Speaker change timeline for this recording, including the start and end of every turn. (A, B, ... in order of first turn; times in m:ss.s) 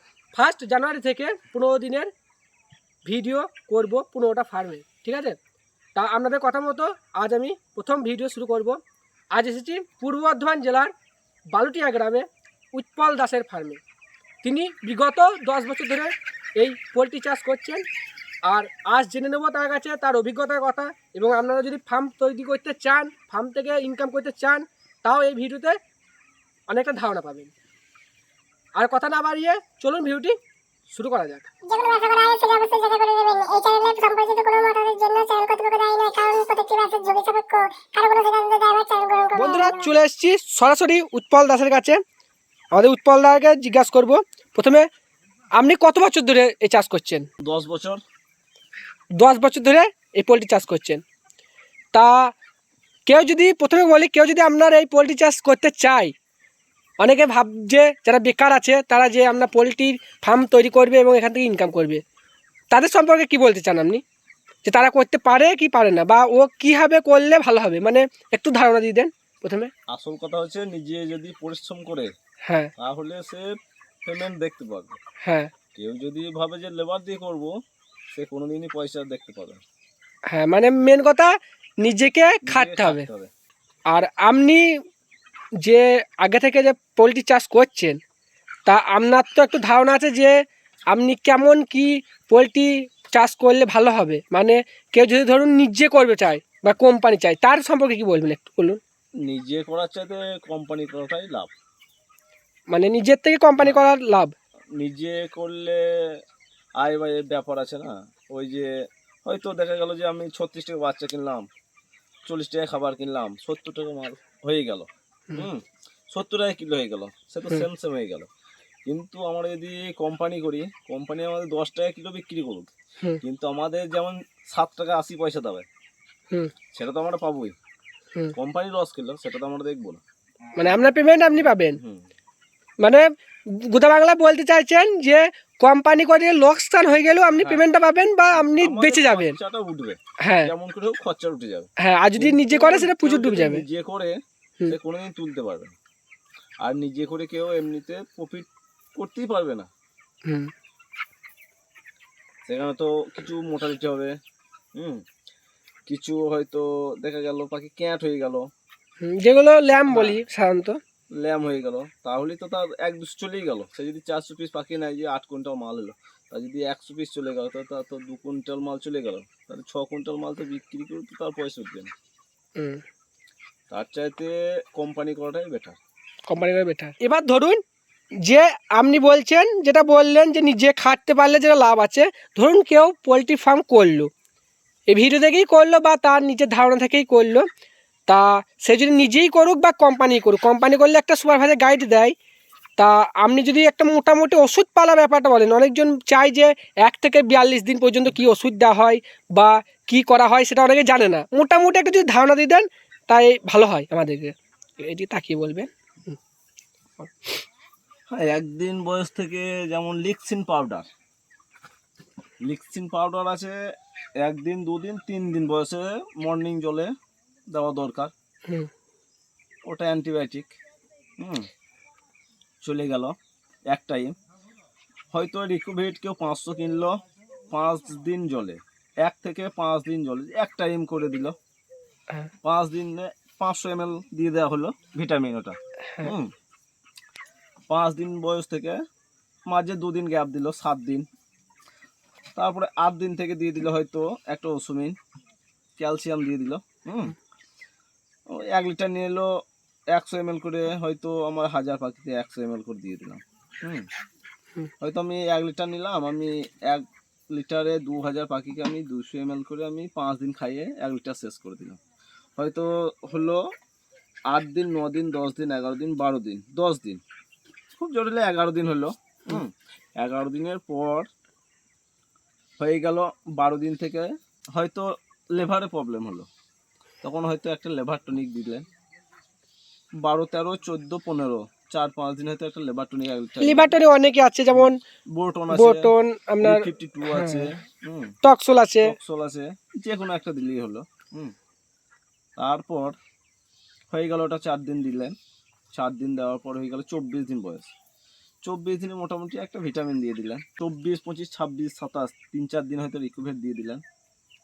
0:00.3-0:02.1 A
0:03.1-0:05.4 A
0:06.0-0:08.8 A
0:09.3-0:10.9 A
0:11.5-0:13.8 A
0:14.4-0:17.8 A
0:18.5-0:25.8 A
0:26.7-0:27.5 A
0:28.8-0:30.4 A
0:30.9-0:31.5 A
0:31.6-0:39.9 B
0:39.4-0:42.0 A
0:42.8-0:44.9 A
0:45.6-0:47.3 A
0:47.4-0:48.0 C
0:49.2-0:51.0 A
0:51.9-0:52.3 A
0:53.1-0:56.1 A
0:57.0-1:02.0 A
1:02.7-1:04.0 A
1:04.6-1:09.7 A
1:09.9-1:12.1 C
1:12.5-1:12.7 A
1:12.8-1:13.5 C
1:14.0-1:15.0 C
1:15.2-1:15.5 A
1:15.8-1:17.5 C
1:18.1-1:19.6 C
1:20.3-1:23.1 A
1:22.4-1:23.3 C
1:23.9-1:24.7 A
1:25.6-1:28.0 A
1:28.7-1:30.4 A
1:30.9-1:38.8 A
1:39.2-1:41.5 C
1:42.7-1:44.3 A
1:43.6-1:43.8 C
1:44.8-1:46.2 C
1:46.8-1:48.7 C
1:49.2-1:51.5 C
1:52.3-1:58.3 C
1:58.9-2:02.7 C
2:03.2-2:05.7 C
2:06.7-2:07.6 C
2:08.4-2:10.0 C
2:10.6-2:11.8 A
2:11.4-2:12.0 C
2:13.6-2:19.4 A
2:17.4-2:17.6 C
2:18.5-2:25.8 C
2:20.2-2:20.5 A
2:21.8-2:23.6 A
2:26.6-2:29.7 C
2:30.3-2:30.5 A
2:32.5-2:34.1 C
2:34.8-2:35.0 C
2:35.9-2:38.5 C
2:39.0-2:40.8 A
2:39.8-2:40.2 C
2:41.2-2:51.9 C
2:52.6-2:52.8 A
2:53.7-2:55.8 C
2:56.3-2:57.6 A
2:58.2-3:04.1 A
3:04.9-3:07.5 A
3:08.1-3:12.1 A
3:12.8-3:26.2 A
3:27.0-3:27.4 A
3:28.1-3:30.9 C
3:32.4-3:33.6 C
3:34.2-3:36.9 C
3:37.5-3:38.1 C
3:39.7-3:40.5 C
3:41.2-3:41.5 C
3:42.6-3:43.2 C
3:43.7-3:44.1 C
3:45.1-3:47.0 C
3:47.5-3:51.4 C
3:52.4-3:56.3 C
3:57.7-3:58.8 C
3:59.5-4:01.1 C
4:02.4-4:05.0 C
4:05.8-4:07.2 C
4:08.3-4:09.3 C
4:09.9-4:13.9 C
4:14.8-4:21.8 C
4:22.4-4:23.4 C
4:24.3-4:27.0 C
4:27.7-4:31.1 C
4:32.6-4:36.3 C
4:37.0-4:38.6 C
4:40.0-4:43.8 C
4:43.4-4:44.8 A
4:44.5-4:48.1 C
4:45.5-4:47.5 A
4:48.2-4:48.9 A
4:48.8-4:51.3 C
4:52.4-4:53.0 C
4:53.9-4:55.2 C
4:55.7-4:57.7 C
4:58.4-5:03.8 C